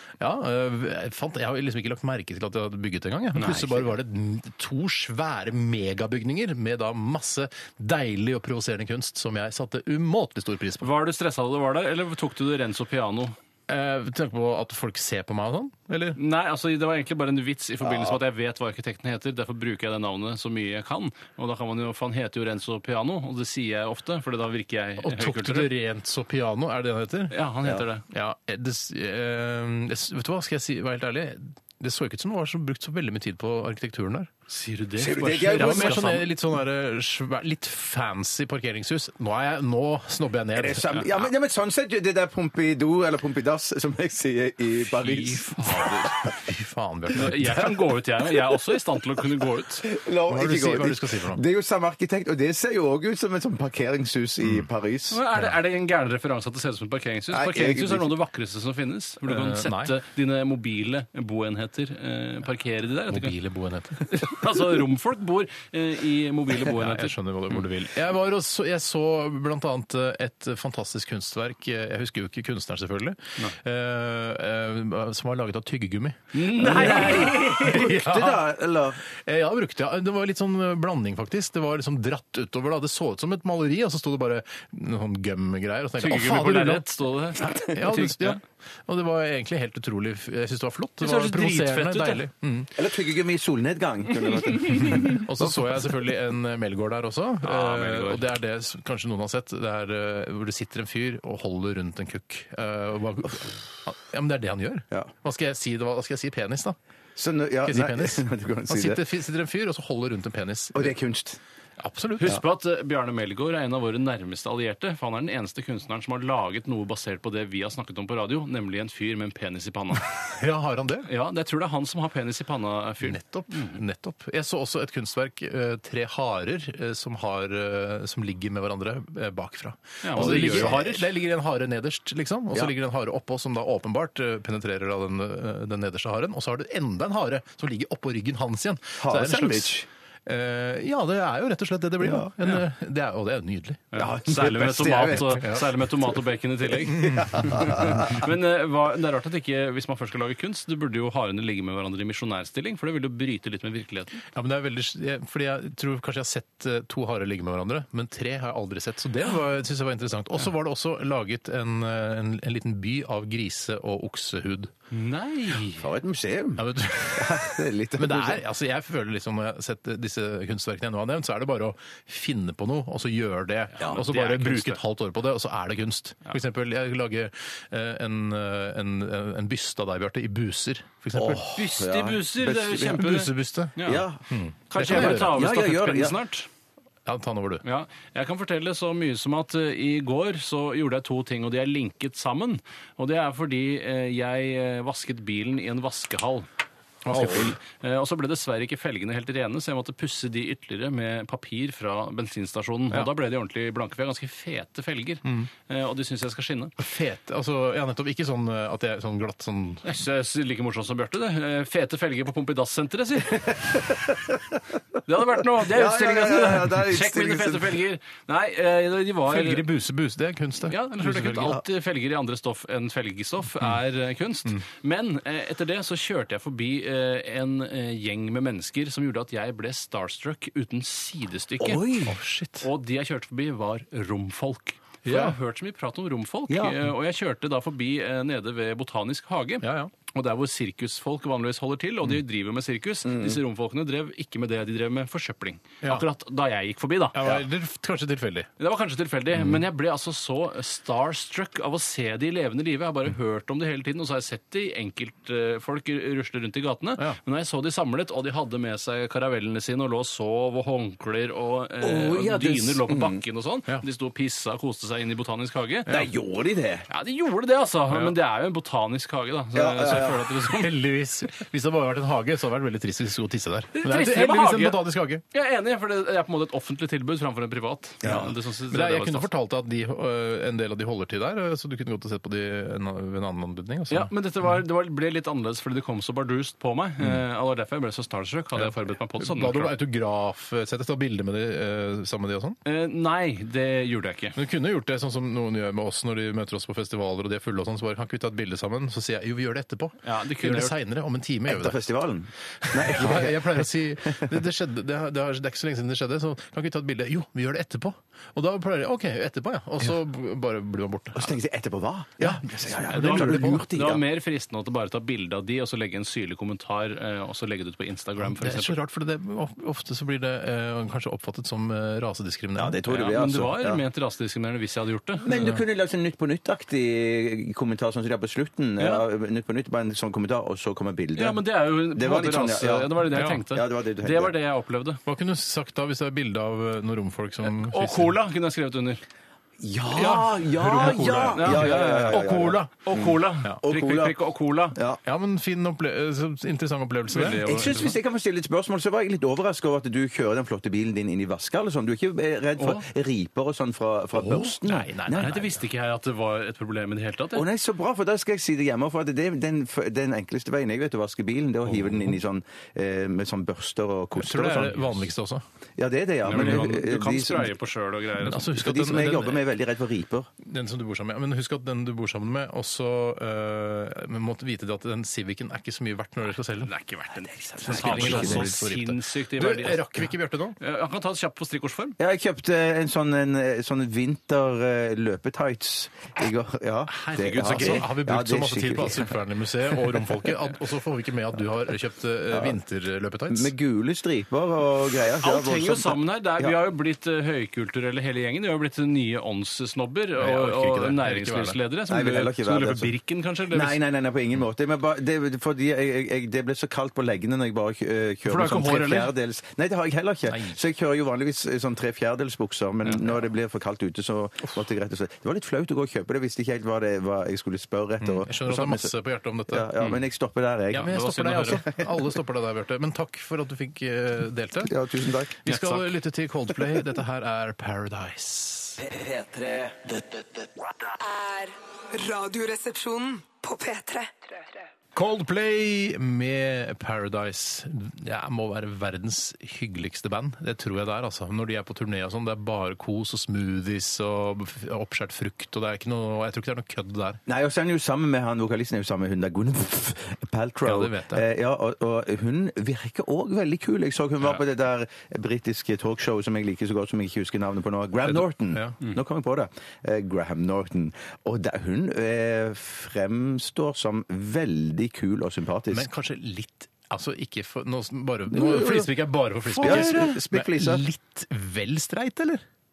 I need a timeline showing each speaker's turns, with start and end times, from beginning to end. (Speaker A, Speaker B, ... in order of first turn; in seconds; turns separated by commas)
Speaker A: 0.2-10.9, Speaker B: 3.4-3.8, Speaker B: 10.8-13.3, Speaker A: 13.7-16.2, Speaker B: 16.1-25.7, Speaker C: 17.8-18.2, Speaker A: 25.0-27.4, Speaker B: 27.3-28.0, Speaker A: 28.1-34.3, Speaker B: 34.5-36.2, Speaker C: 35.0-36.1, Speaker A: 35.4-41.2, Speaker C: 40.5-46.3, Speaker B: 45.0-46.1, Speaker A: 45.6-47.7, Speaker B: 47.1-49.9, Speaker C: 49.8-55.2, Speaker A: 50.3-51.4, Speaker A: 54.4-54.7, Speaker B: 55.1-63.3, Speaker C: 57.3-58.1, Speaker A: 59.2-59.9, Speaker A: 63.1-64.1, Speaker B: 64.0-67.6, Speaker A: 66.6-78.5, Speaker B: 76.3-78.0, Speaker C: 76.6-79.0, Speaker A: 79.1-86.9, Speaker B: 86.0-88.4, Speaker C: 87.4-87.7, Speaker A: 87.5-92.7, Speaker B: 91.0-92.2, Speaker C: 92.8-95.9, Speaker B: 94.5-94.9, Speaker A: 95.0-106.8, Speaker B: 97.4-98.2, Speaker C: 107.2-109.0, Speaker A: 107.6-110.9, Speaker C: 110.7-111.4, Speaker A: 111.8-112.4, Speaker B: 112.2-120.1, Speaker A: 120.2-121.1, Speaker B: 121.0-123.8, Speaker A: 123.0-139.7, Speaker B: 130.0-131.0, Speaker C: 130.2-131.0, Speaker C: 139.0-139.9, Speaker A: 140.2-143.9, Speaker C: 142.0-142.3, Speaker B: 143.9-154.2, Speaker C: 143.9-145.4, Speaker A: 145.1-145.7, Speaker C: 146.8-148.2, Speaker A: 147.0-148.0, Speaker A: 154.3-164.7, Speaker B: 164.9-165.9, Speaker C: 165.8-168.4, Speaker A: 166.6-181.5, Speaker B: 173.8-174.8, Speaker C: 181.1-183.2, Speaker B: 181.5-184.1, Speaker A: 182.9-183.8, Speaker C: 183.8-184.2, Speaker A: 184.3-185.4, Speaker B: 184.7-186.5, Speaker C: 184.8-186.2, Speaker A: 187.1-187.6, Speaker B: 187.6-196.5, Speaker A: 197.0-197.6, Speaker B: 197.1-206.7, Speaker A: 205.2-205.5, Speaker A: 206.8-209.8, Speaker B: 209.8-213.9, Speaker C: 213.9-214.2, Speaker B: 215.0-219.7, Speaker C: 215.6-217.8, Speaker A: 219.3-221.6, Speaker B: 220.7-231.8, Speaker C: 231.6-232.1, Speaker A: 232.0-232.7, Speaker B: 232.6-247.3, Speaker A: 235.0-235.3, Speaker C: 236.5-236.8, Speaker A: 239.6-239.9, Speaker C: 243.0-243.4, Speaker A: 247.1-248.5, Speaker B: 248.6-266.0, Speaker A: 249.3-249.6, Speaker C: 261.8-263.2, Speaker C: 265.9-266.9, Speaker B: 266.9-270.7, Speaker C: 269.5-270.3, Speaker A: 269.9-275.2, Speaker B: 273.7-279.3, Speaker C: 278.0-278.3, Speaker A: 278.7-284.1, Speaker B: 283.9-289.7, Speaker A: 288.6-292.6, Speaker B: 292.6-294.4, Speaker A: 294.4-301.8, Speaker B: 300.0-300.7, Speaker C: 301.5-304.4, Speaker A: 302.6-311.3, Speaker C: 311.1-314.0, Speaker A: 312.2-313.6, Speaker B: 312.9-318.8, Speaker A: 318.2-322.8, Speaker C: 322.6-323.8, Speaker B: 322.9-325.4, Speaker C: 325.2-334.3, Speaker A: 325.3-325.6, Speaker B: 328.8-329.0, Speaker B: 331.1-335.0, Speaker A: 333.1-333.4, Speaker A: 335.1-338.1, Speaker B: 337.4-339.0, Speaker C: 339.6-344.1, Speaker A: 339.9-342.7, Speaker B: 340.8-344.8, Speaker C: 344.7-345.0, Speaker A: 345.0-347.9, Speaker B: 347.1-348.0, Speaker C: 347.4-355.4, Speaker B: 352.6-352.8, Speaker A: 354.1-355.6, Speaker B: 355.2-357.4, Speaker C: 357.3-365.0, Speaker A: 361.6-362.2, Speaker A: 364.1-365.4, Speaker C: 365.8-367.5, Speaker B: 366.2-368.5, Speaker A: 366.3-366.7, Speaker A: 368.2-369.4, Speaker C: 368.5-370.3, Speaker A: 370.4-376.7, Speaker B: 376.6-379.9, Speaker C: 377.6-378.5, Speaker A: 377.6-380.6, Speaker B: 380.6-382.0, Speaker C: 382.0-389.1, Speaker A: 386.9-393.5, Speaker B: 387.1-387.9, Speaker C: 393.3-396.6, Speaker B: 395.2-403.8, Speaker A: 400.2-401.6, Speaker C: 401.9-402.9, Speaker C: 403.5-418.9, Speaker B: 408.2-409.1, Speaker A: 410.3-410.6, Speaker A: 418.0-419.7, Speaker C: 419.5-422.0, Speaker A: 420.7-424.7, Speaker B: 420.7-421.6, Speaker C: 424.6-425.4, Speaker A: 425.4-428.8, Speaker B: 425.4-425.9, Speaker C: 428.8-430.5, Speaker D: 430.8-434.5, Speaker A: 434.9-447.2, Speaker C: 447.3-465.9, Speaker A: 450.6-451.2, Speaker A: 458.1-458.8, Speaker A: 465.7-472.4, Speaker C: 468.3-468.9, Speaker C: 469.5-470.8